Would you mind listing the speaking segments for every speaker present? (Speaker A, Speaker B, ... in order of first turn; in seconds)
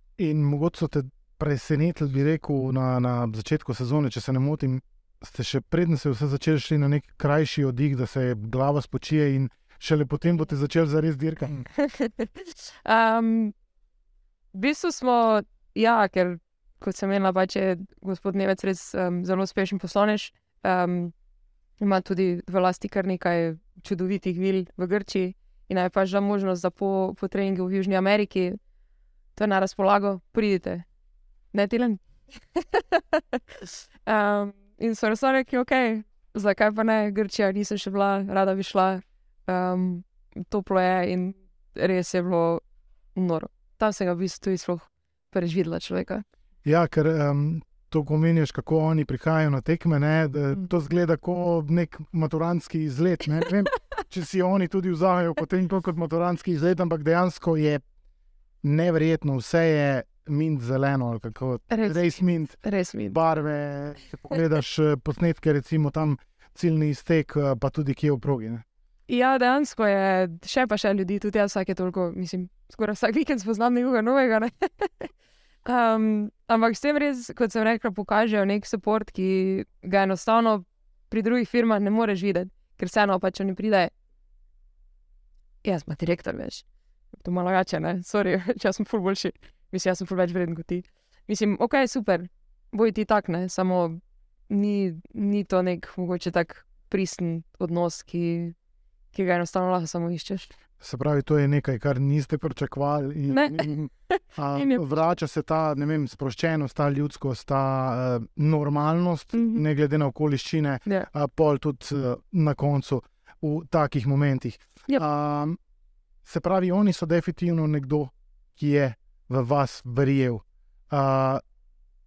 Speaker A: 0.2-11.7, 46.6-57.8, 58.6-62.6, 63.1-68.6, 100.8-115.6, 116.2-121.4
Speaker B: 11.8-13.5, 14.5-21.1, 21.8-28.6, 29.4-30.9, 31.5-32.0, 32.5-42.6, 43.1-46.2, 61.7-63.2, 69.1-75.1, 75.7-83.9, 85.6-86.7, 87.2-98.5, 99.1-100.5, 103.3-104.9, 109.3-109.6